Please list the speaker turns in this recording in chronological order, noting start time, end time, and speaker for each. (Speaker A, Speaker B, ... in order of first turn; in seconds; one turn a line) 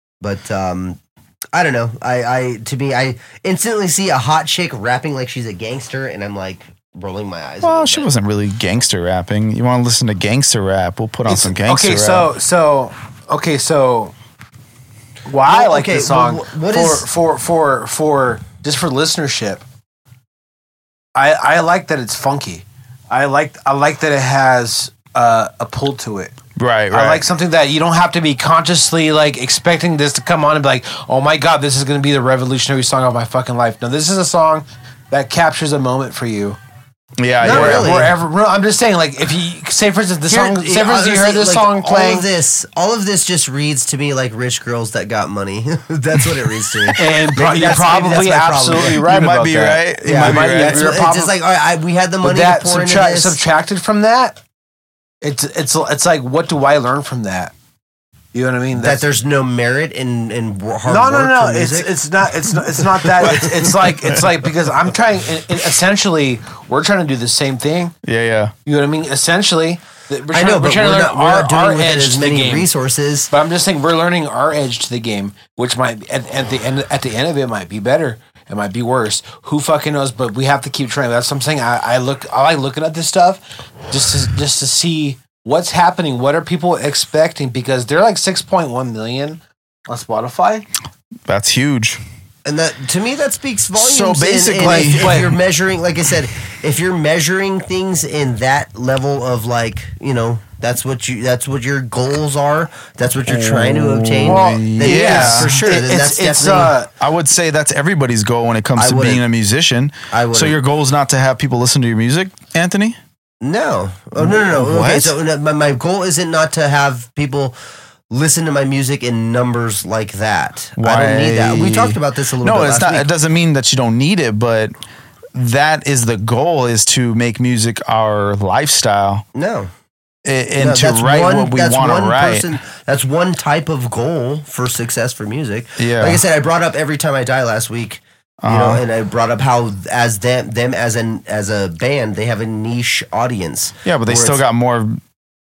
Speaker A: 0.2-1.0
Speaker A: 1.5-8.1
Speaker B: 7.6-12.3
Speaker C: 11.2-14.1
Speaker C: 15.2-19.6
Speaker A: 15.4-17.1
Speaker C: 21.1-26.3
Speaker B: 26.6-27.2
Speaker C: 26.9-36.6
Speaker B: 37.2-38.0
Speaker A: 37.4-38.1
Speaker C: 37.4-42.3
Speaker A: 40.3-49.1
Speaker C: 47.0-51.3
Speaker B: 48.9-51.0
Speaker A: 50.0-53.4
Speaker C: 52.2-54.4
Speaker C: 55.2-57.5
Speaker C: 58.3-59.1
Speaker A: 58.8-61.9
Speaker C: 60.9-67.9
Speaker A: 63.0-63.6
Speaker B: 68.0-68.5
Speaker C: 68.7-72.7
Speaker A: 70.3-73.3
Speaker C: 73.3-90.6
Speaker B: 91.3-92.0
Speaker A: 92.4-106.8
Speaker B: 93.8-95.2
Speaker C: 94.6-95.3
Speaker B: 103.3-105.5
Speaker C: 104.2-106.9
Speaker B: 107.0-113.0
Speaker A: 108.8-109.2
Speaker A: 110.1-110.6
Speaker A: 113.4-117.5
Speaker B: 114.2-115.2
Speaker A: 118.1-123.1
Speaker B: 120.8-124.7
Speaker B: 125.3-129.2
Speaker A: 129.3-129.7
Speaker B: 130.2-132.5
Speaker A: 130.6-144.4
Speaker B: 135.8-136.2
Speaker B: 138.4-138.8
Speaker B: 143.8-145.0